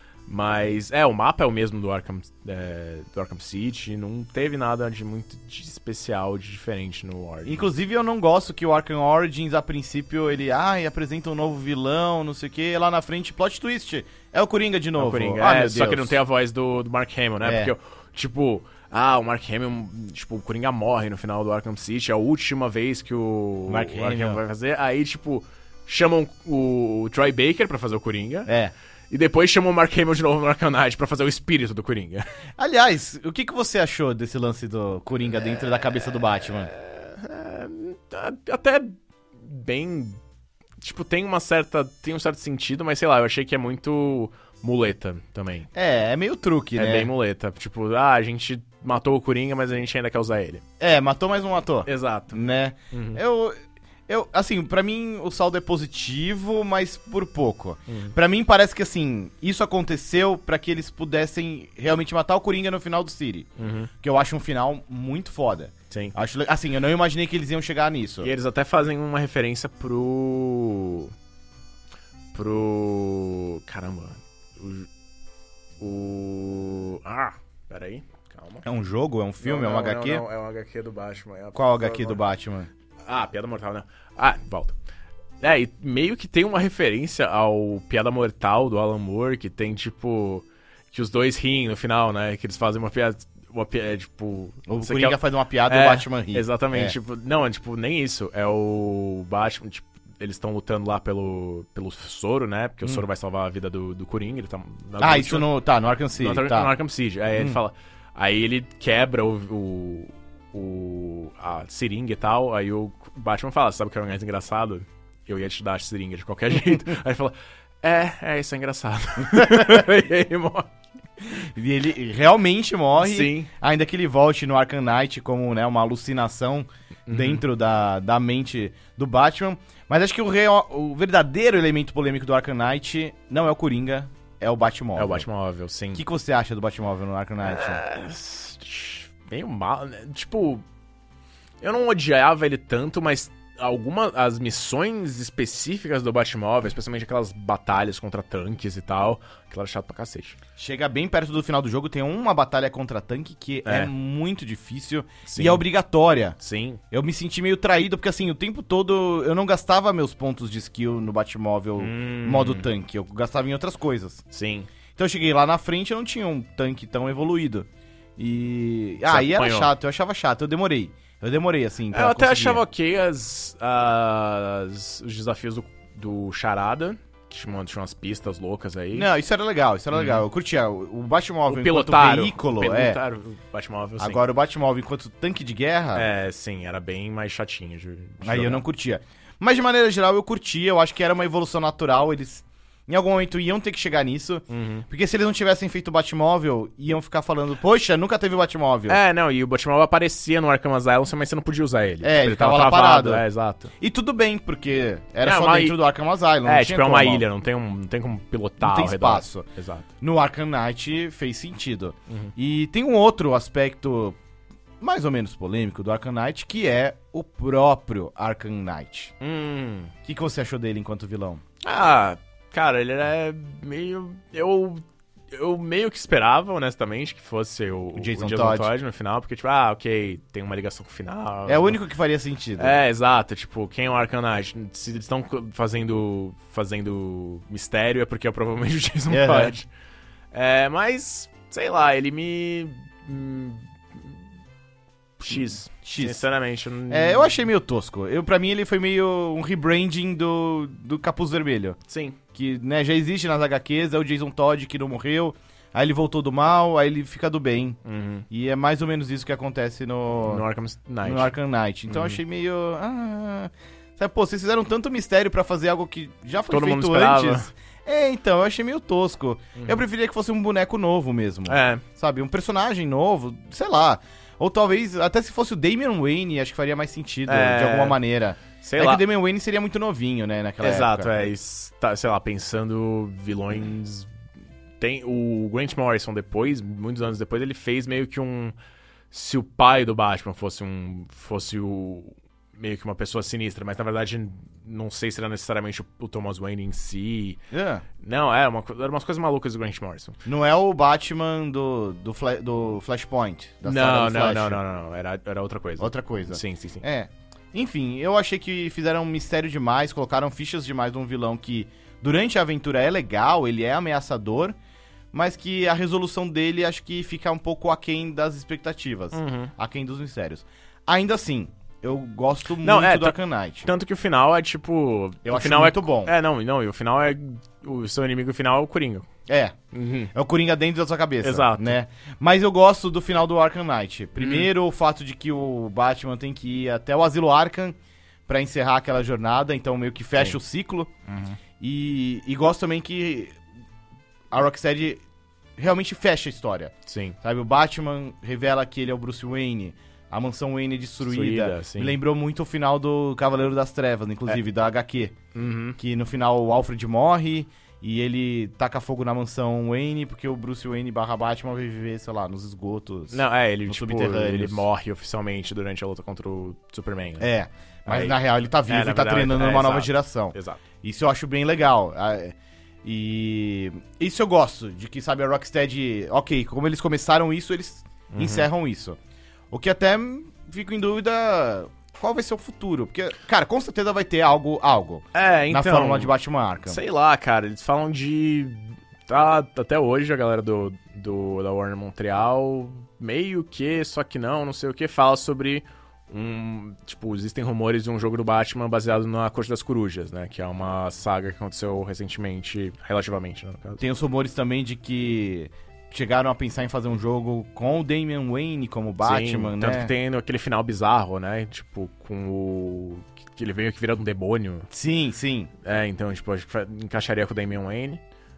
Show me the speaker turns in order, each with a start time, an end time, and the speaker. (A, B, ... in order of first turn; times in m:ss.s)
0:00.3-0:07.7 A
0:07.4-0:16.2 B
0:15.0-0:28.5 A
0:17.4-0:17.7 B
0:23.7-0:24.4 B
0:28.5-0:28.7 B
0:29.1-0:32.2 A
0:32.6-0:36.7 B
0:36.6-0:40.2 A
0:40.8-0:45.7 A
0:45.7-0:47.1 B
0:46.8-0:50.6 A
0:50.8-0:53.6 B
0:51.8-0:53.2 A
0:54.1-1:03.5 B
0:57.9-0:58.1 A
1:03.6-1:03.9 A
1:04.0-1:08.3 B
1:08.2-1:11.1 A
1:12.3-1:14.9 A
1:15.8-1:18.6 A
1:18.6-1:20.2 B
1:19.4-1:22.2 A
1:21.5-1:22.7 B
1:23.0-1:24.8 A
1:25.4-1:45.5 A
1:34.7-1:36.9 B
1:45.0-1:46.7 B
1:46.1-2:00.7 A
1:59.3-1:59.8 B
2:01.3-2:15.2 B
2:03.0-2:03.5 A
2:07.1-2:07.4 A
2:15.0-2:16.0 A
2:15.9-2:17.8 B
2:17.4-2:20.6 A
2:21.6-2:30.4 A
2:30.6-2:36.4 B
2:33.6-2:33.9 A
2:35.2-2:35.6 A
2:36.4-2:36.8 A
2:36.9-2:44.2 B
2:41.8-2:42.7 A
2:44.3-2:44.7 A
2:45.0-2:52.6 B
2:49.1-2:49.7 A
2:51.9-2:59.1 A
2:58.9-3:03.0 B
2:59.9-3:00.2 A
3:01.5-3:04.2 A
3:04.0-3:06.1 B
3:05.9-3:08.6 A
3:08.2-3:19.0 B
3:14.5-3:14.8 A
3:18.9-3:23.7 A
3:22.0-3:23.2 B
3:23.8-3:27.2 B
3:25.2-3:25.8 A
3:26.4-3:29.8 A
3:28.6-3:29.5 B
3:30.0-3:34.2 B
3:34.8-3:39.1 B
3:39.2-3:39.9 A
3:40.0-3:41.4 B
3:41.6-3:51.8 A
3:48.0-3:48.7 B
3:51.5-3:52.8 B
3:52.6-3:59.7 A
3:59.1-3:59.5 B
4:00.3-4:04.2 A
4:05.2-4:07.4 A
4:05.8-4:06.2 B
4:06.9-4:11.8 B
4:11.9-4:12.2 A
4:12.3-4:17.8 B
4:17.8-4:18.2 A
4:18.3-4:20.4 B
4:20.3-4:21.3 A
4:21.0-4:41.2 B
4:21.9-4:22.2 A
4:26.5-4:27.5 A
4:29.6-4:29.8 A
4:31.5-4:31.8 A
4:37.3-4:38.0 A
4:38.6-4:39.0 A
4:40.6-4:44.1 A
4:44.8-4:48.5 A
4:49.1-4:57.4 A
4:57.5-4:57.8 B
4:58.0-5:00.2 A
5:00.2-5:04.6 B
5:03.6-5:06.8 A
5:05.8-5:14.5 B
5:15.1-5:23.7 B
5:19.1-5:19.5 A
5:22.6-5:29.1 A
5:25.2-5:26.1 B
5:29.3-5:29.6 B
5:29.7-5:30.1 A
5:30.1-5:37.7 B
5:31.2-5:31.8 A
5:34.2-5:34.5 A
5:38.3-5:43.4 B
5:44.3-5:45.0 B
5:45.6-5:55.2 B
5:46.9-5:47.2 A
5:51.0-5:52.0 A
5:55.3-5:55.8 A
5:55.8-6:04.6 B
6:03.1-6:07.3 A
6:07.2-6:19.0 B
6:07.8-6:10.6 A
6:18.1-6:18.5 A
6:19.5-6:26.8 B
6:25.1-6:26.1 A
6:26.6-6:43.8 A
6:43.8-6:49.9 B
6:49.0-6:54.7 A
6:54.7-6:55.5 B
6:55.6-6:58.0 A